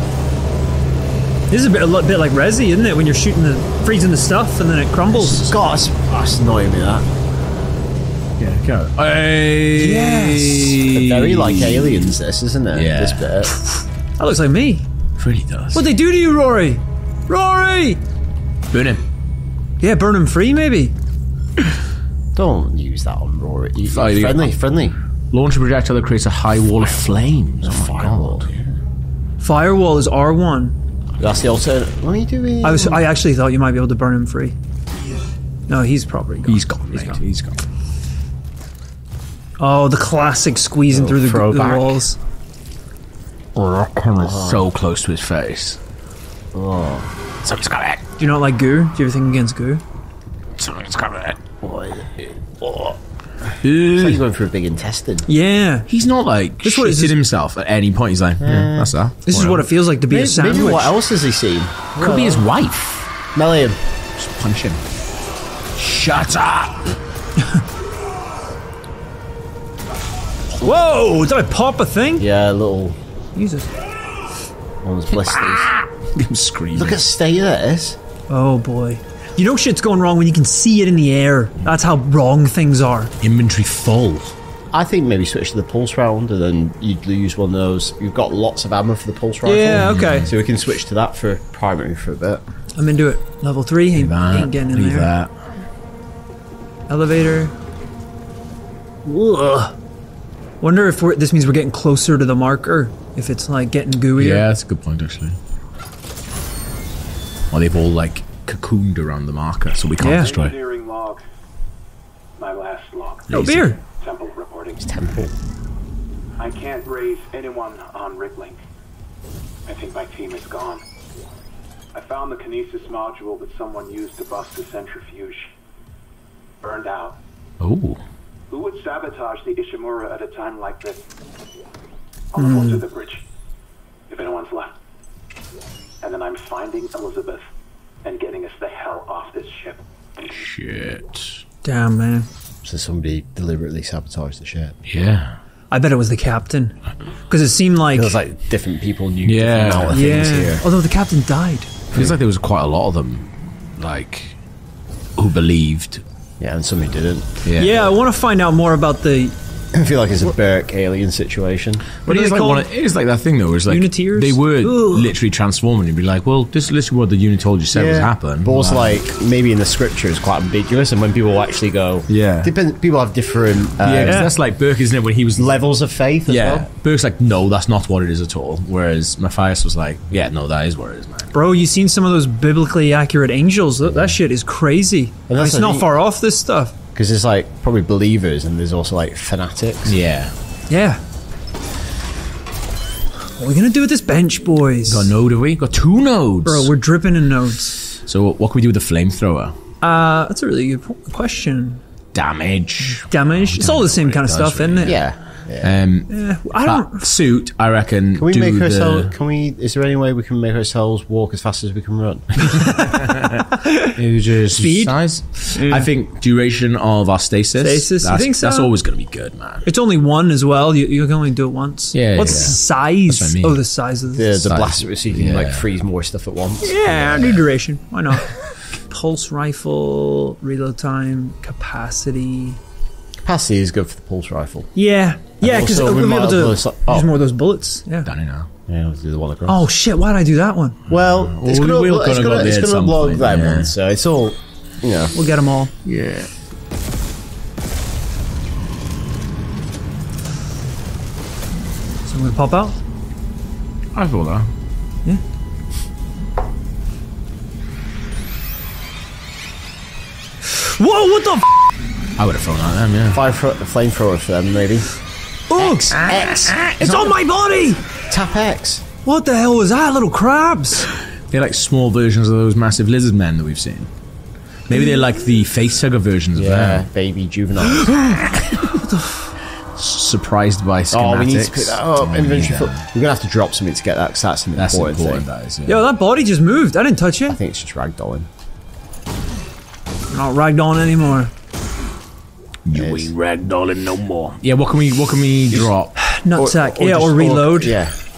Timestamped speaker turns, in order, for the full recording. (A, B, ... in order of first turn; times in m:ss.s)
0:01.5-0:05.5 A
0:05.2-0:07.1 B
0:08.4-0:12.1 C
0:09.7-0:10.8 A
0:10.8-0:13.5 B
0:12.7-0:13.5 C
0:14.2-0:14.9 A
0:15.2-0:15.8 C
0:15.7-0:18.0 A
0:18.7-0:19.0 C
0:19.8-0:20.9 A
0:22.4-0:25.0 B
0:23.9-0:24.6 C
0:25.3-0:28.5 C
0:27.6-0:28.8 B
0:29.4-0:30.8 A
0:31.2-0:33.1 B
0:32.6-0:34.6 A
0:35.7-0:37.2 A
0:36.4-0:37.6 C
0:39.6-0:42.2 A
0:40.9-0:42.0 B
0:43.6-0:45.8 C
0:44.2-0:44.7 B
0:46.5-0:47.1 B
0:47.4-0:48.0 C
0:48.2-0:49.8 A
0:50.6-0:51.6 C
0:51.6-0:52.1 B
0:52.6-0:53.0 B
0:53.6-0:54.2 C
0:53.9-0:55.3 B
0:55.3-0:55.9 A
0:55.9-0:59.7 C
0:56.6-0:57.2 A
0:58.4-0:59.0 B
0:59.2-1:01.0 A
1:00.1-1:02.5 B
1:02.0-1:03.1 C
1:03.3-1:03.8 B
1:04.2-1:04.8 C
1:05.8-1:06.9 C
1:10.6-1:12.3 A
1:12.2-1:13.0 B
1:13.4-1:13.7 A
1:14.8-1:15.7 B
1:15.3-1:17.1 C
1:16.8-1:18.0 B
1:18.3-1:23.1 A
1:23.2-1:24.4 C
1:24.7-1:32.4 B
1:29.4-1:30.3 A
1:29.7-1:30.3 C
1:32.8-1:35.1 A
1:34.0-1:35.3 C
1:36.9-1:37.5 A
1:39.0-1:39.8 A
1:40.6-1:44.4 A
1:44.2-1:45.4 C
1:47.5-1:50.6 C
1:50.0-1:50.3 A
1:50.1-1:51.2 D
1:52.4-1:53.4 D
1:53.3-1:53.8 A
1:53.3-1:53.7 C
1:54.0-1:54.9 D
1:54.8-1:55.3 B
1:56.4-1:58.6 D
1:59.7-2:00.8 D
2:01.9-2:05.5 D
2:06.6-2:07.2 D
2:07.6-2:08.0 C
2:08.5-2:11.0 D
2:12.3-2:13.2 D
2:12.4-2:12.8 A
2:14.1-2:14.8 D
2:16.0-2:17.4 D
2:18.0-2:19.8 D
2:20.3-2:21.4 C
2:21.6-2:22.3 A
2:22.6-2:24.8 B
2:24.8-2:25.4 C
2:25.7-2:26.8 A
2:27.3-2:28.2 A
2:27.9-2:30.6 B
2:29.2-2:30.0 C
2:29.9-2:31.8 A
2:31.9-2:34.4 C
2:35.2-2:36.0 C
2:36.4-2:37.8 B
2:37.4-2:37.8 C
2:37.6-2:39.4 A
2:39.7-2:41.9 B
2:42.0-2:49.0 C
2:42.1-2:42.7 A
2:43.7-2:45.1 A
2:47.7-2:54.3 B
2:52.1-2:52.5 C
2:53.8-2:55.6 C
2:54.0-2:54.3 A
2:55.4-2:56.7 B
2:56.3-3:01.3 C
3:01.3-3:06.8 A
3:05.3-3:05.9 B
3:07.0-3:10.0 B
3:09.8-3:10.3 C
3:10.7-3:11.0 A
3:13.4-3:15.1 A
3:14.9-3:16.7 C
3:16.4-3:18.0 A
3:18.1-3:19.6 C
3:19.8-3:21.8 A
3:22.1-3:25.1 C
3:23.1-3:25.0 A
3:24.8-3:25.8 B
3:25.6-3:29.1 C
3:26.1-3:27.1 A
3:28.2-3:32.3 B
3:32.4-3:39.7 C
3:32.5-3:34.0 A
3:34.5-3:35.0 A
3:35.5-3:35.9 A
3:37.6-3:38.7 A
3:39.6-3:44.4 A
3:41.9-3:43.6 C
3:42.2-3:42.5 B
3:44.1-3:47.4 B
3:44.4-3:45.7 C
3:46.6-3:52.6 A
3:53.2-3:54.7 B
3:54.8-3:58.1 A
3:55.4-3:57.2 B
3:58.0-3:58.5 C
3:58.7-3:59.7 B
3:59.5-4:00.8 A
4:00.9-4:03.7 C
4:00.9-4:05.2 B
4:05.2-4:05.7 A
4:05.8-4:06.3 C
4:12.0-4:12.8 A
4:14.0-4:14.5 C
4:20.4-4:21.7 A
4:22.2-4:23.2 C
4:23.1-4:24.9 B
4:25.5-4:27.8 A
4:25.6-4:26.6 B
4:25.9-4:27.1 C
4:28.1-4:28.8 B
4:29.1-4:30.9 A
4:31.3-4:33.9 C
4:34.7-4:36.9 C
4:36.4-4:38.4 B
4:38.3-4:38.8 C
4:38.7-4:39.3 A
4:39.8-4:42.9 C
4:40.9-4:45.2 B
4:44.6-4:45.8 C
4:45.7-4:47.4 A
4:47.3-4:48.3 B
4:50.1-4:51.3 A
4:52.6-4:56.0 C
4:52.7-4:53.1 B
4:56.0-4:57.8 A
4:56.3-4:58.0 B